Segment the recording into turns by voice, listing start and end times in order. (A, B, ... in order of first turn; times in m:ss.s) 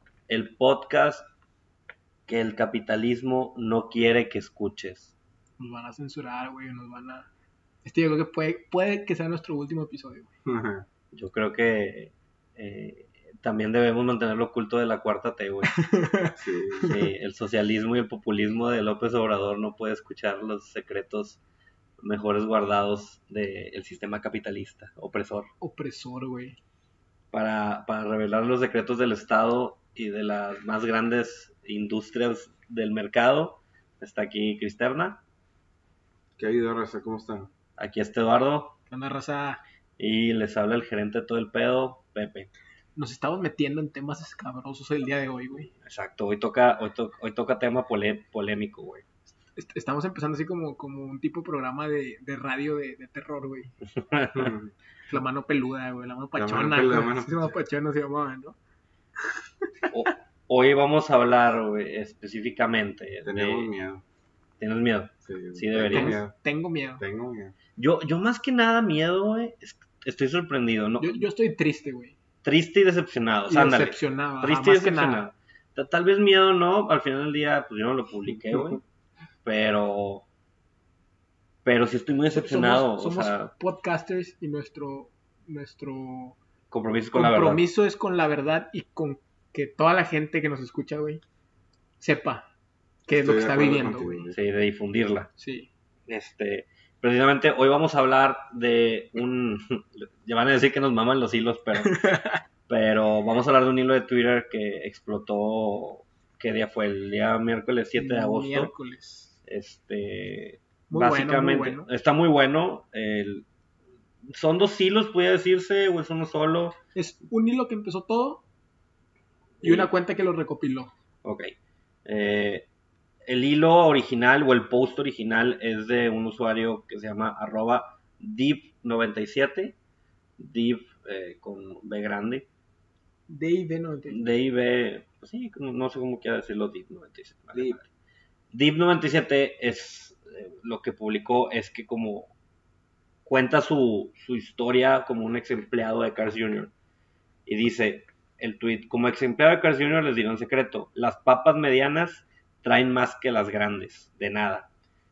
0:00.3-0:01.3 A
0:02.3-0:05.1 A
0:05.6-0:07.3 B
0:07.8-0:10.3 B
0:10.4-0:10.8 C
0:11.1-0:15.8 A
0:15.7-0:16.9 B
0:16.4-0:16.9 C
0:16.8-0:21.4 A
0:22.0-0:25.5 A
0:25.6-0:26.6 B
0:27.3-0:35.2 A
0:36.4-0:37.5 C
0:37.8-0:38.8 A
0:38.9-0:39.6 B
0:40.0-0:42.5 A
0:43.0-0:45.7 B
0:45.8-0:49.0 A
0:49.5-0:53.7 B
0:53.9-0:54.5 A
0:54.3-0:54.7 C
0:55.1-0:58.6 B
0:56.4-0:57.5 C
0:59.2-0:59.9 B
0:59.9-1:03.7 A
1:03.2-1:04.0 C
1:04.6-1:06.2 A
1:05.2-1:06.3 C
1:05.9-1:07.0 B
1:07.0-1:07.5 C
1:07.8-1:11.2 A
1:11.0-1:12.1 B
1:12.4-1:18.8 A
1:13.5-1:15.2 B
1:19.4-1:20.2 A
1:21.6-1:23.5 A
1:22.3-1:26.4 B
1:26.7-1:27.6 A
1:27.1-1:31.2 B
1:32.0-1:32.4 B
1:33.0-1:34.3 B
1:33.1-1:34.4 C
1:34.3-1:35.3 A
1:35.4-1:35.7 B
1:36.1-1:42.0 A
1:41.8-1:42.4 B
1:42.7-1:48.7 A
1:48.0-1:49.3 B
1:49.4-1:53.4 A
1:50.9-1:51.9 B
1:54.3-1:56.8 A
1:56.9-1:58.4 B
1:59.6-1:59.9 A
1:59.6-2:00.9 B
2:01.2-2:01.5 A
2:02.0-2:02.6 A
2:03.2-2:09.7 A
2:10.4-2:12.4 A
2:13.3-2:14.2 B
2:14.1-2:17.8 A
2:18.5-2:22.3 A
2:23.2-2:26.7 A
2:27.4-2:34.7 A